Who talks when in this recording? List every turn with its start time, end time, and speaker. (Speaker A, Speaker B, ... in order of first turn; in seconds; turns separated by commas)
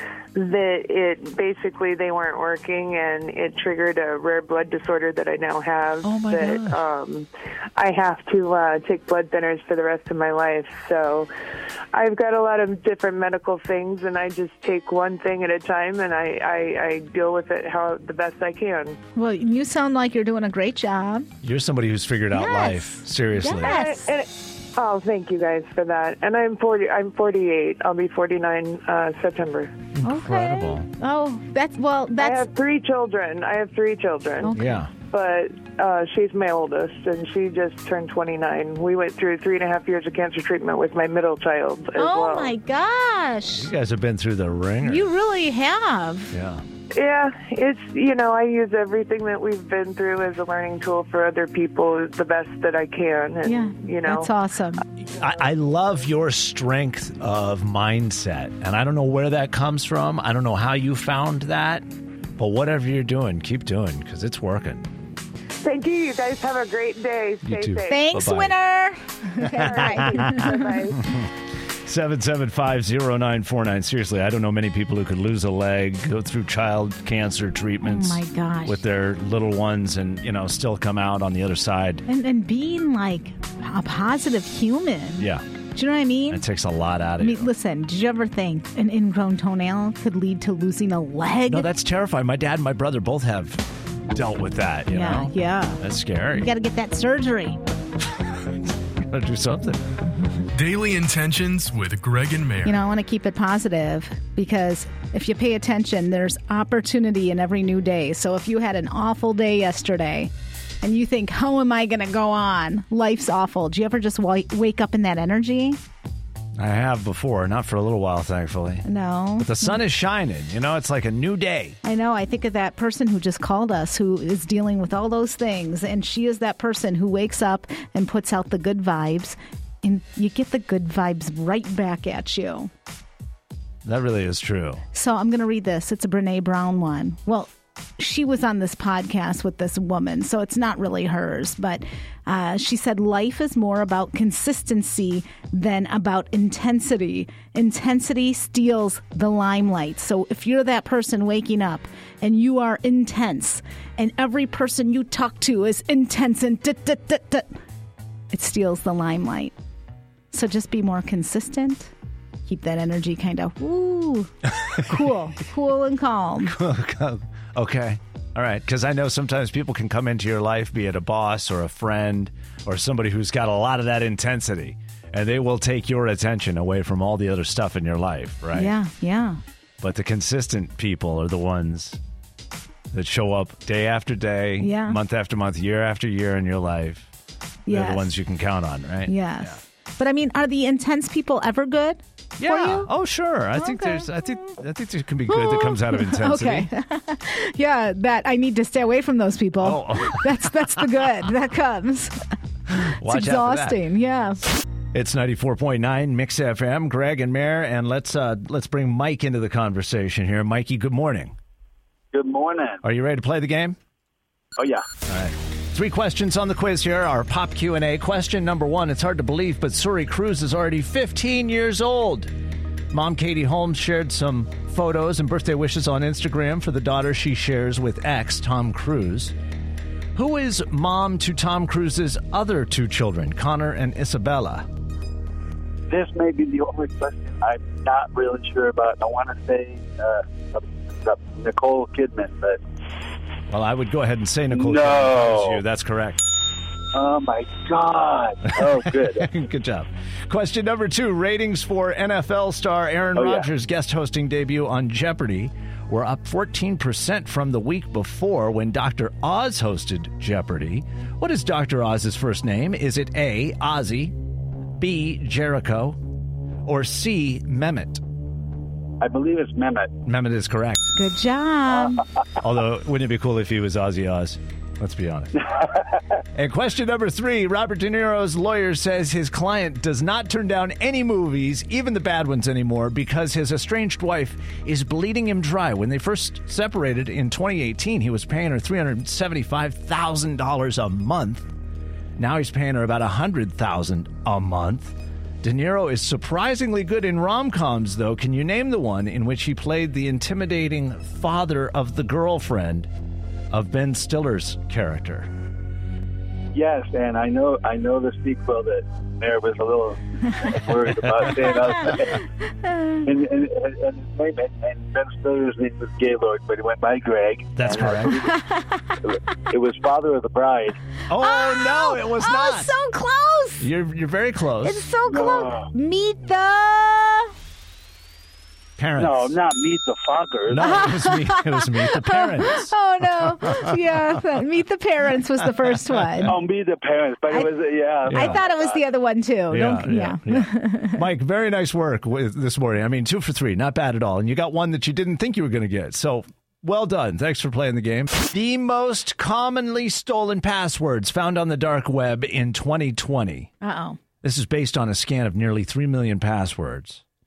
Speaker A: 0.3-11.3, Speaker B: 6.0-6.8, Speaker A: 11.9-19.0, Speaker C: 19.1-21.3, Speaker B: 21.4-23.7, Speaker C: 22.3-24.1, Speaker A: 23.6-29.7, Speaker B: 29.9-30.9, Speaker C: 30.0-32.5, Speaker A: 32.2-42.5, Speaker C: 34.4-34.7, Speaker B: 34.5-34.9, Speaker C: 42.0-43.7, Speaker B: 43.5-45.1, Speaker C: 44.8-46.3, Speaker B: 46.3-46.6, Speaker A: 46.9-54.3, Speaker C: 53.4-54.8, Speaker B: 55.2-61.9, Speaker B: 62.4-64.9, Speaker A: 65.6-68.1, Speaker B: 67.4-68.5, Speaker C: 67.9-70.7, Speaker A: 69.4-71.1, Speaker B: 69.7-70.1, Speaker B: 71.0-71.3, Speaker B: 71.8-82.0, Speaker C: 77.8-78.8, Speaker C: 82.1-86.4, Speaker B: 85.2-85.4, Speaker B: 86.3-87.5, Speaker C: 87.2-91.7, Speaker B: 91.5-96.5, Speaker C: 94.9-95.8, Speaker C: 96.3-97.6, Speaker B: 99.0-99.8, Speaker D: 100.5-102.8, Speaker C: 102.6-115.8, Speaker B: 116.5-118.8, Speaker C: 118.8-119.8, Speaker B: 119.4-121.8, Speaker C: 121.8-132.7, Speaker B: 133.8-134.8, Speaker C: 134.9-157.6, Speaker C: 158.3-159.5, Speaker C: 160.3-161.9, Speaker C: 162.4-166.5, Speaker B: 166.4-178.7, Speaker C: 178.5-179.4, Speaker B: 179.8-182.0, Speaker B: 182.9-187.1, Speaker C: 184.6-185.0, Speaker C: 187.7-188.1, Speaker B: 187.7-189.6, Speaker C: 189.1-192.9, Speaker B: 192.4-196.7, Speaker C: 193.6-194.1, Speaker C: 195.3-202.2, Speaker B: 199.6-200.8, Speaker B: 202.8-203.8, Speaker C: 203.0-204.4, Speaker B: 204.9-211.3, Speaker E: 212.1-212.8, Speaker B: 212.8-213.8, Speaker E: 214.6-214.8, Speaker B: 215.0-222.3, Speaker B: 222.9-229.3, Speaker B: 230.1-234.7, Speaker E: 235.9-242.6, Speaker B: 243.5-246.2, Speaker E: 244.5-245.6, Speaker E: 246.9-249.2, Speaker B: 248.6-264.1, Speaker E: 253.2-253.4, Speaker B: 264.8-266.0, Speaker B: 266.6-268.0, Speaker E: 269.0-270.0, Speaker B: 270.1-270.9, Speaker C: 270.9-272.0, Speaker B: 272.4-275.4, Speaker B: 276.3-291.5, Speaker B: 292.2-302.9, Speaker B: 303.5-305.3, Speaker E: 306.5-312.2, Speaker B: 311.1-311.3, Speaker C: 312.6-312.9, Speaker E: 313.0-318.3, Speaker B: 317.6-318.2, Speaker C: 318.1-318.9, Speaker E: 319.1-320.8, Speaker B: 321.1-322.7, Speaker C: 321.2-323.7, Speaker B: 323.6-324.8, Speaker C: 324.6-327.3, Speaker E: 325.0-325.7, Speaker B: 328.8-329.3, Speaker E: 329.0-330.6, Speaker B: 330.5-333.8, Speaker C: 330.5-336.4, Speaker B: 335.9-336.3, Speaker E: 336.3-338.8, Speaker C: 338.1-341.0, Speaker B: 338.1-338.4, Speaker B: 339.5-353.5, Speaker C: 353.6-354.0, Speaker B: 354.2-357.0